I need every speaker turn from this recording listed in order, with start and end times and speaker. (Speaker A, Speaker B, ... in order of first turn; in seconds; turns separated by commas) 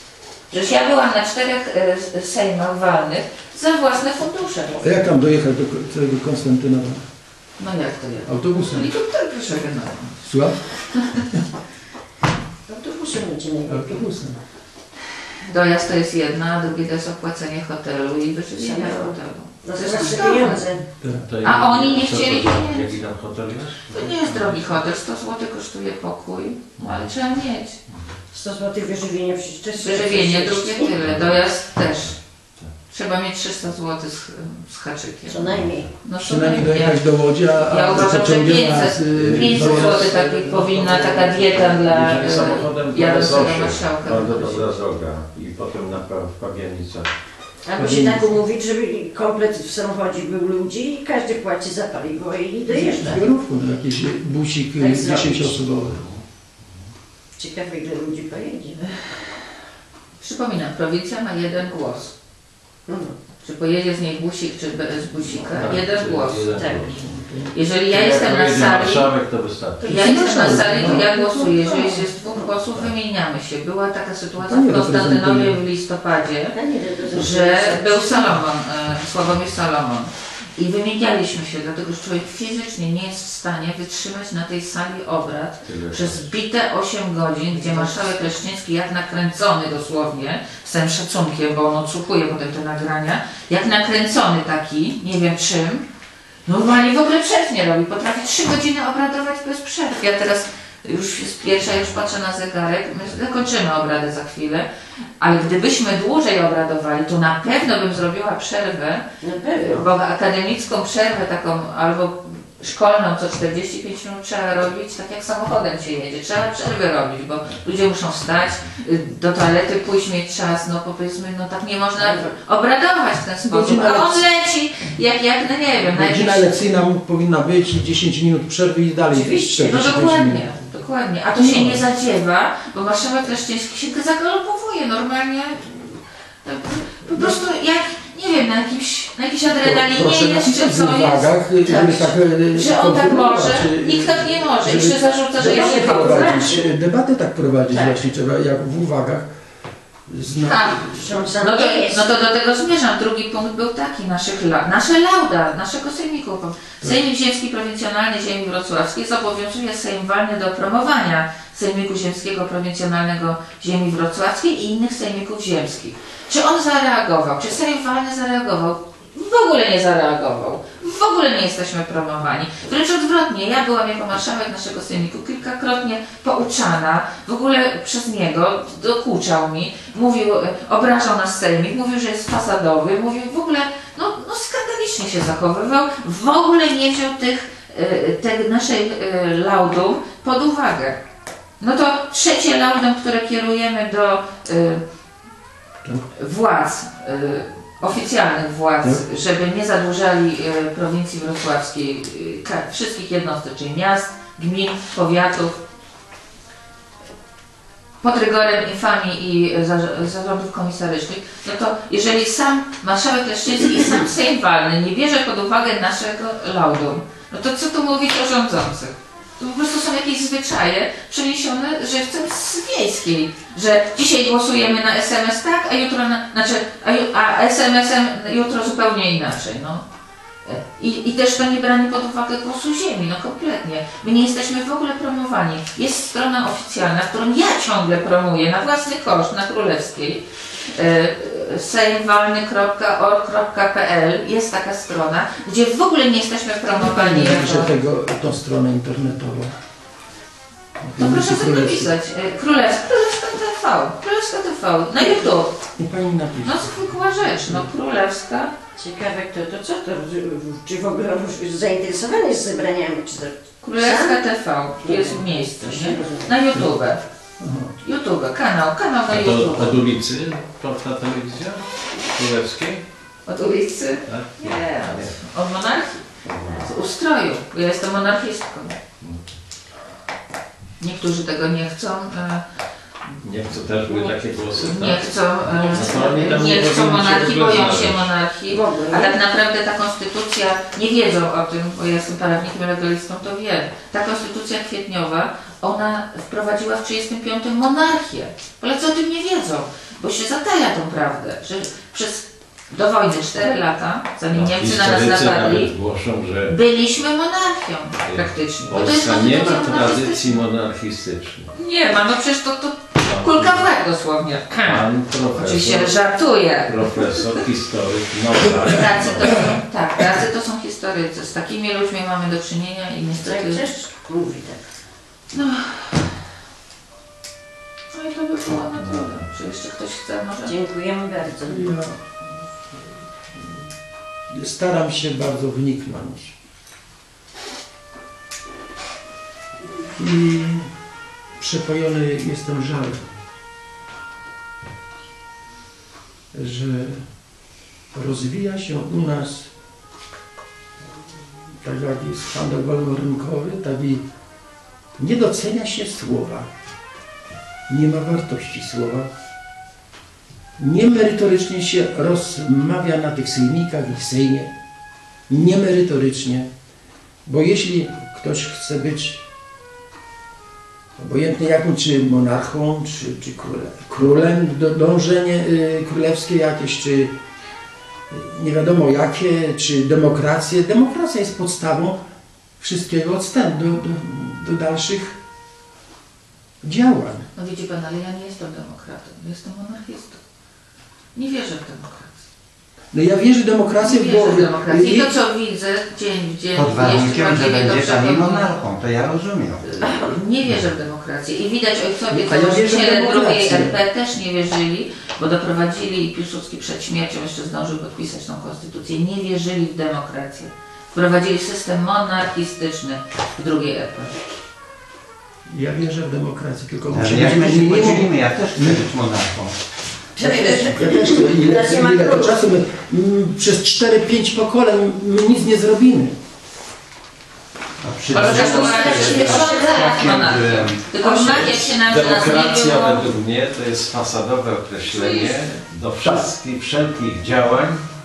Speaker A: 0.5-4.9, Speaker B: 4.8-7.0, Speaker A: 7.6-10.2, Speaker B: 8.2-8.9, Speaker B: 10.2-10.6, Speaker C: 12.7-14.0, Speaker B: 13.7-14.4, Speaker A: 15.5-20.6, Speaker C: 18.6-20.8, Speaker B: 21.0-21.3, Speaker D: 21.1-24.8, Speaker A: 21.4-22.9, Speaker A: 23.9-27.8, Speaker D: 26.8-27.0, Speaker C: 28.3-30.9, Speaker A: 29.8-32.2, Speaker D: 31.0-31.4, Speaker A: 32.9-35.5, Speaker C: 35.3-35.9, Speaker D: 35.5-35.8, Speaker A: 36.0-37.0, Speaker B: 36.2-40.2, Speaker A: 37.6-44.7, Speaker D: 39.1-47.1, Speaker C: 47.6-53.2, Speaker B: 47.8-48.3, Speaker B: 52.7-56.0, Speaker C: 54.8-55.5, Speaker D: 55.8-56.2, Speaker C: 57.4-58.8, Speaker A: 60.2-62.1, Speaker C: 62.9-63.1, Speaker A: 63.4-66.5, Speaker D: 65.2-67.0, Speaker C: 66.5-66.9, Speaker B: 66.9-67.5, Speaker A: 67.5-69.1, Speaker D: 67.9-71.0, Speaker B: 69.8-72.0, Speaker A: 69.8-76.5, Speaker B: 74.4-75.6, Speaker C: 76.5-78.3, Speaker A: 77.1-95.8, Speaker D: 85.6-86.3, Speaker A: 96.5-104.7, Speaker A: 105.2-109.0, Speaker C: 109.2-109.9, Speaker A: 109.5-126.6, Speaker C: 122.0-122.3, Speaker B: 123.5-124.2, Speaker B: 125.9-130.5, Speaker C: 129.1-129.8, Speaker A: 129.6-146.5, Speaker B: 131.3-131.8, Speaker B: 139.5-149.3, Speaker C: 145.4-146.7, Speaker B: 150.1-151.1, Speaker A: 150.4-191.0, Speaker C: 151.0-152.1, Speaker A: 191.6-194.8, Speaker A: 196.1-205.6, Speaker A: 208.0-229.8, Speaker A: 230.4-247.7, Speaker B: 246.7-249.5, Speaker B: 250.8-251.9, Speaker A: 251.0-255.6, Speaker B: 255.8-256.7, Speaker A: 256.4-258.5, Speaker C: 258.8-264.2, Speaker A: 263.6-267.0, Speaker C: 264.8-266.3, Speaker B: 267.4-267.7, Speaker A: 267.8-269.8, Speaker D: 269.1-272.8, Speaker A: 273.2-278.8, Speaker D: 274.1-275.2, Speaker D: 276.3-276.5, Speaker A: 280.8-282.4, Speaker D: 283.2-285.0, Speaker A: 283.9-305.7, Speaker C: 285.6-286.4, Speaker D: 285.6-288.1, Speaker C: 288.5-289.2, Speaker D: 304.3-306.5, Speaker A: 306.4-310.4, Speaker D: 308.0-311.5, Speaker A: 311.5-317.3, Speaker D: 313.0-313.6, Speaker D: 314.6-315.9, Speaker D: 316.6-319.5, Speaker A: 318.6-323.7, Speaker C: 323.2-324.7, Speaker A: 325.3-326.1, Speaker A: 327.9-330.5, Speaker D: 328.5-329.1, Speaker C: 330.4-331.6, Speaker B: 331.4-332.0, Speaker B: 333.3-333.6, Speaker B: 334.3-336.3, Speaker B: 339.9-340.7, Speaker B: 341.4-343.1, Speaker B: 346.3-347.0, Speaker B: 347.9-349.5, Speaker B: 351.6-354.0, Speaker B: 355.0-356.5, Speaker B: 357.7-359.1, Speaker B: 360.6-364.5, Speaker B: 365.3-366.5, Speaker B: 367.2-369.2, Speaker B: 371.0-377.1, Speaker B: 378.1-382.0, Speaker B: 382.6-385.1, Speaker B: 386.6-387.2, Speaker A: 387.4-390.2, Speaker A: 391.1-392.1, Speaker B: 392.9-395.1, Speaker A: 393.8-398.6, Speaker E: 396.5-399.6, Speaker A: 399.6-414.1, Speaker C: 399.8-400.1, Speaker B: 402.1-403.8, Speaker B: 415.5-418.8, Speaker E: 416.9-419.6, Speaker C: 420.2-422.4, Speaker B: 420.2-426.1, Speaker E: 427.8-431.4, Speaker A: 428.1-433.1, Speaker C: 428.2-430.2, Speaker D: 431.0-437.9, Speaker A: 434.9-435.6